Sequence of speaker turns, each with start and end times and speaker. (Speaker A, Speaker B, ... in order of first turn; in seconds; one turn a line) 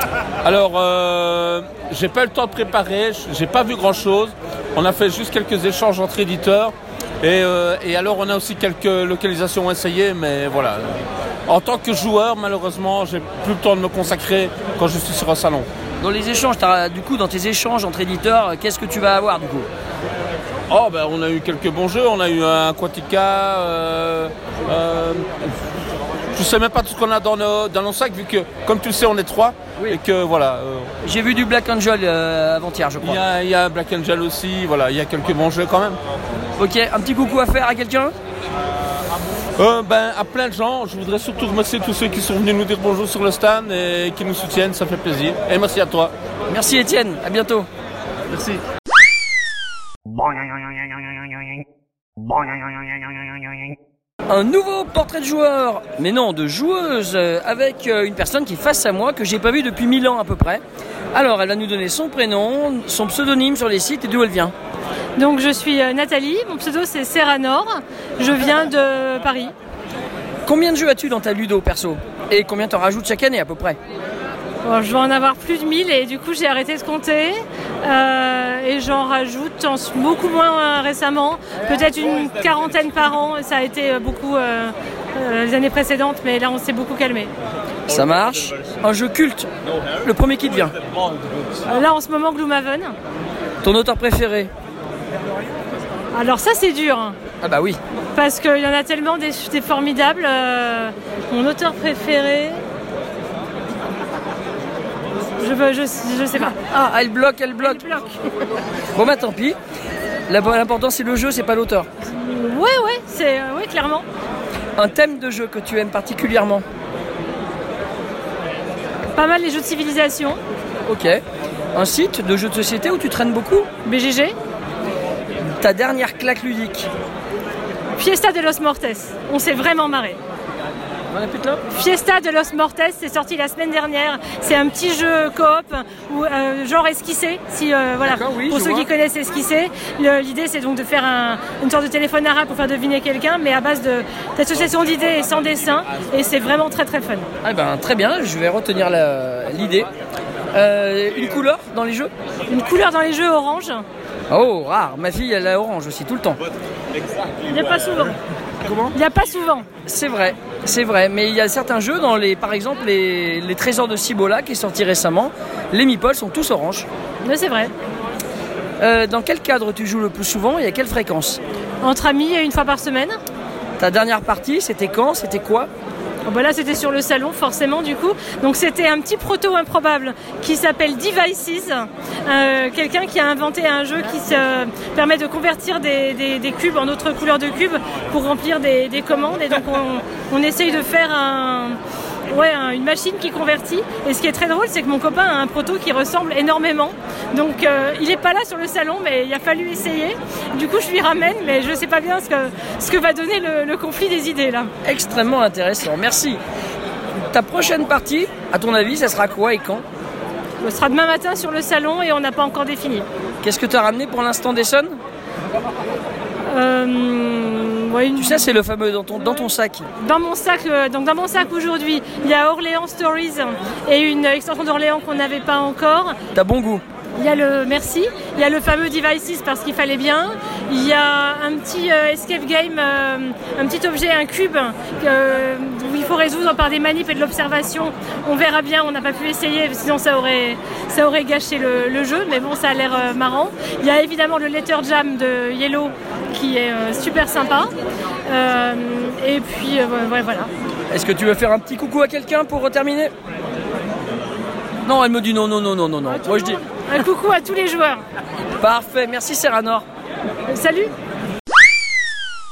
Speaker A: 0.4-10.9
Speaker A: 11.5-15.7
Speaker B: 16.0-19.7
Speaker A: 20.7-25.3
Speaker A: 26.3-30.9
Speaker B: 31.0-33.2
Speaker A: 33.0-36.0
Speaker B: 36.5-38.1
Speaker A: 39.6-46.1
Speaker B: 46.5-47.7
Speaker A: 48.3-48.6
Speaker B: 54.3-64.5
Speaker C: 65.2-69.5
Speaker B: 70.5-73.8
Speaker C: 74.6-87.3
Speaker B: 87.9-90.8
Speaker C: 91.6-92.9
Speaker B: 93.6-94.5
Speaker C: 96.1-97.2
Speaker B: 97.4-97.8
Speaker C: 98.1-102.6
Speaker C: 105.4-106.5
Speaker B: 106.3-107.8
Speaker C: 107.6-108.2
Speaker B: 108.9-109.6
Speaker B: 110.3-111.9
Speaker C: 112.0-114.0
Speaker B: 114.8-116.7
Speaker C: 119.1-120.4
Speaker B: 120.8-121.2
Speaker B: 121.7-123.7
Speaker C: 123.8-124.3
Speaker B: 125.6-126.9
Speaker C: 128.0-130.2
Speaker B: 131.1-131.6
Speaker C: 131.7-147.3
Speaker B: 138.0-138.9
Speaker B: 147.4-149.9
Speaker B: 150.5-152.1
Speaker C: 152.5-153.8
Speaker B: 154.3-156.4
Speaker C: 157.4-158.2
Speaker B: 158.6-158.9
Speaker C: 158.9-159.7
Speaker B: 159.8-166.9
Speaker C: 167.2-167.7
Speaker B: 168.8-171.4
Speaker C: 171.8-173.2
Speaker B: 173.8-175.7
Speaker C: 176.2-191.8
Speaker C: 192.3-204.7
Speaker B: 204.8-206.4
Speaker B: 207.2-209.8
Speaker C: 210.6-213.1
Speaker B: 213.4-215.0
Speaker C: 216.5-218.5
Speaker B: 218.2-219.8
Speaker C: 219.2-226.2
Speaker B: 226.3-226.8
Speaker C: 227.2-247.7
Speaker C: 248.3-250.5
Speaker B: 250.9-253.1
Speaker B: 254.8-256.6
Speaker C: 256.2-258.0
Speaker B: 258.6-259.8
Speaker C: 260.5-260.9